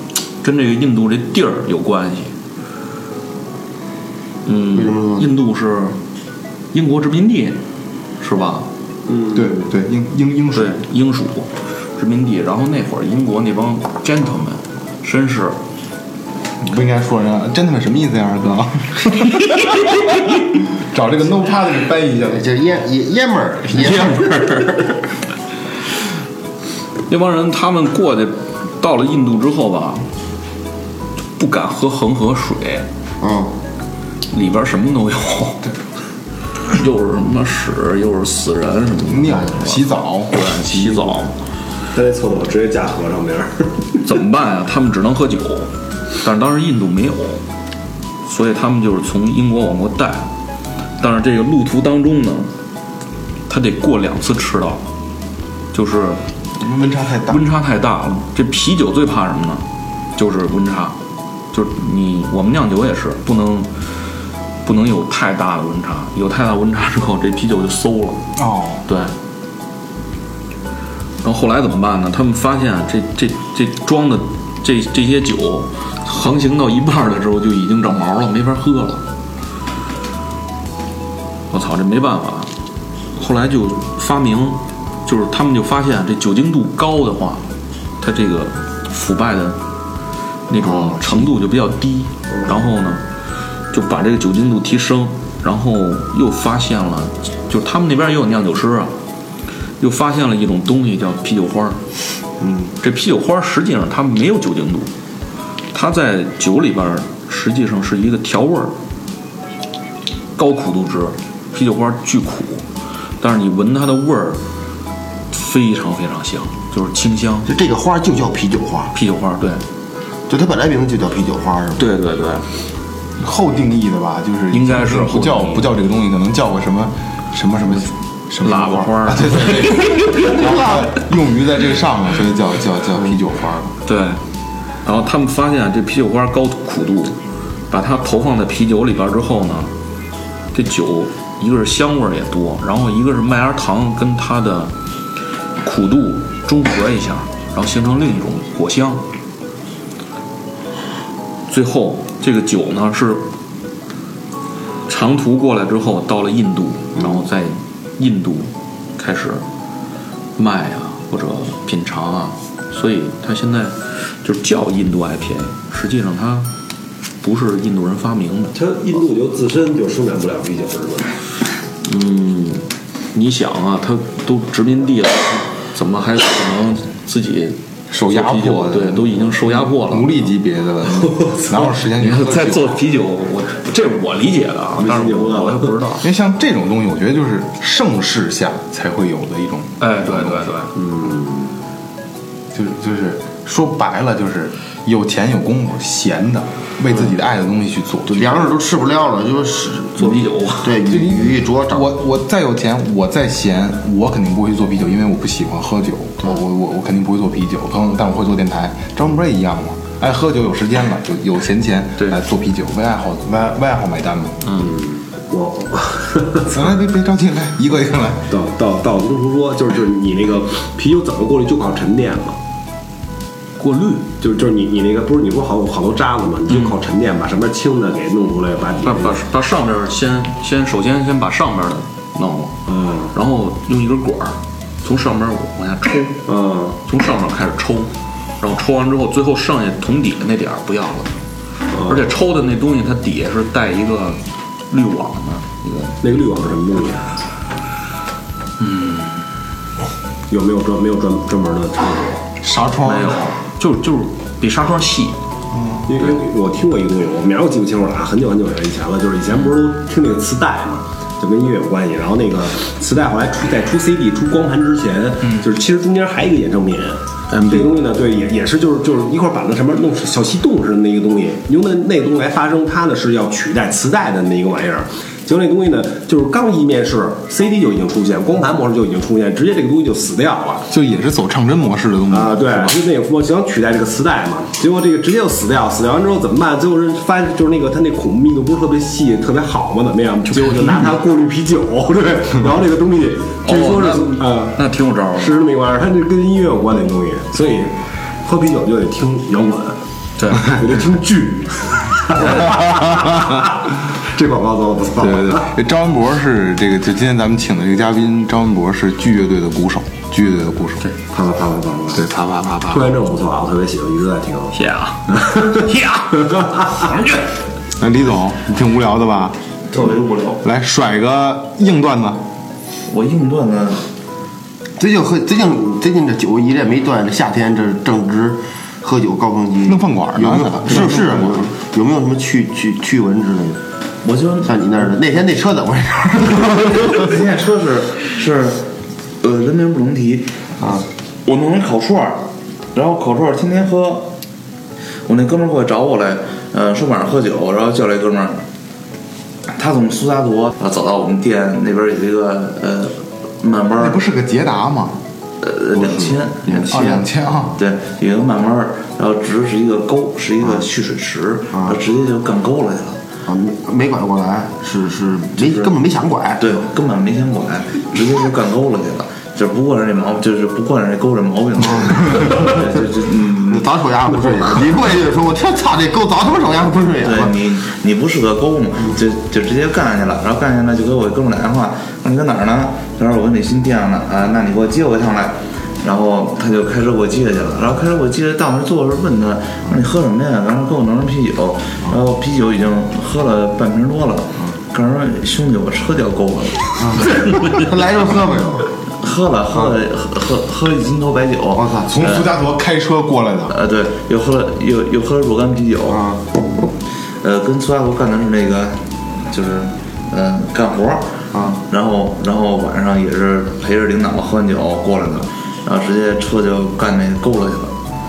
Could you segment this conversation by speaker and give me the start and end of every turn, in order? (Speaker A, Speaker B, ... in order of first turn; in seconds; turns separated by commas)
Speaker A: 0.4-2.3, Speaker A: 4.5-6.0, Speaker B: 4.7-5.3, Speaker A: 6.7-7.6, Speaker A: 8.2-8.7, Speaker C: 9.3-10.8, Speaker A: 10.5-15.6, Speaker C: 16.6-22.4, Speaker B: 22.3-24.7, Speaker A: 27.1-30.1, Speaker A: 31.4-32.9, Speaker B: 33.2-33.6, Speaker A: 34.3-35.7, Speaker A: 36.7-41.3, Speaker C: 39.0-41.2, Speaker D: 41.9-44.0, Speaker A: 44.0-47.4, Speaker A: 48.2-50.3, Speaker A: 51.0-52.5, Speaker A: 53.5-54.8, Speaker A: 55.7-56.2, Speaker C: 56.6-57.4, Speaker A: 57.3-61.0, Speaker A: 61.5-63.7, Speaker A: 64.6-68.3, Speaker C: 68.4-68.8, Speaker A: 68.9-69.1, Speaker A: 71.2-79.0, Speaker A: 81.5-82.5, Speaker A: 83.2-87.5, Speaker A: 88.0-89.6, Speaker A: 90.5-93.0, Speaker B: 90.6-91.3, Speaker A: 93.7-98.9, Speaker A: 99.8-101.8, Speaker B: 102.4-102.7, Speaker A: 102.8-104.9, Speaker A: 105.7-108.8, Speaker A: 110.4-112.7, Speaker A: 113.2-114.4, Speaker A: 115.3-117.5, Speaker B: 117.5-118.9, Speaker A: 118.9-119.6, Speaker B: 120.3-121.8, Speaker A: 121.8-122.5, Speaker C: 123.2-133.7, Speaker A: 124.5-125.7, Speaker A: 128.4-130.4, Speaker A: 133.8-134.2, Speaker A: 134.8-137.2, Speaker A: 137.7-139.7, Speaker A: 140.5-144.7, Speaker A: 145.6-149.0, Speaker A: 151.5-153.3, Speaker A: 154.9-159.4, Speaker A: 160.4-166.5, Speaker A: 167.2-168.6, Speaker D: 168.6-171.1, Speaker A: 171.8-180.3, Speaker C: 177.9-182.8, Speaker A: 182.0-186.1, Speaker D: 184.8-185.7, Speaker C: 186.0-190.5, Speaker A: 189.8-190.7, Speaker D: 190.8-191.5, Speaker C: 192.5-198.6, Speaker B: 198.1-201.9, Speaker A: 200.0-200.8, Speaker C: 200.8-214.4, Speaker A: 214.4-214.7, Speaker D: 214.6-216.5, Speaker C: 216.5-218.3, Speaker D: 218.3-222.4, Speaker A: 223.6-224.1, Speaker D: 224.2-229.2, Speaker A: 228.8-232.6, Speaker D: 232.7-233.1, Speaker A: 233.1-236.3, Speaker D: 236.3-236.8, Speaker A: 236.8-241.2, Speaker D: 241.7-242.0, Speaker A: 241.8-246.0, Speaker D: 246.0-247.1, Speaker A: 248.6-249.2, Speaker D: 250.3-252.3, Speaker C: 252.4-253.2, Speaker A: 252.8-255.2, Speaker C: 255.5-255.8, Speaker D: 255.9-280.7, Speaker C: 280.7-282.8, Speaker D: 282.1-294.6, Speaker A: 293.4-295.4, Speaker D: 295.2-299.8, Speaker A: 300.2-300.6, Speaker D: 300.3-305.5, Speaker C: 302.8-303.4, Speaker C: 305.0-310.8, Speaker D: 311.1-312.1, Speaker C: 311.9-312.9, Speaker D: 312.7-314.6, Speaker A: 314.5-317.2, Speaker D: 315.1-315.6, Speaker C: 317.8-319.4, Speaker E: 319.7-320.4, Speaker C: 320.4-322.2, Speaker E: 322.9-323.8, Speaker B: 324.8-333.6, Speaker C: 329.7-331.5, Speaker E: 334.0-334.6, Speaker B: 334.4-337.1, Speaker E: 336.5-338.7, Speaker E: 339.2-340.3, Speaker B: 340.6-340.9, Speaker E: 341.2-344.1, Speaker E: 345.1-348.4, Speaker E: 349.5-354.0, Speaker C: 353.8-355.0, Speaker E: 355.4-363.0, Speaker B: 355.7-356.7, Speaker C: 356.6-357.6, Speaker B: 361.5-361.8, Speaker B: 363.3-366.5, Speaker E: 366.4-373.7, Speaker B: 372.2-372.6, Speaker B: 373.5-377.4, Speaker E: 377.0-397.1, Speaker B: 396.8-398.7, Speaker E: 399.0-402.3, Speaker B: 401.6-402.0, Speaker C: 401.9-403.6, Speaker E: 403.5-406.0, Speaker B: 405.9-406.7, Speaker E: 407.2-417.7, Speaker B: 411.3-411.6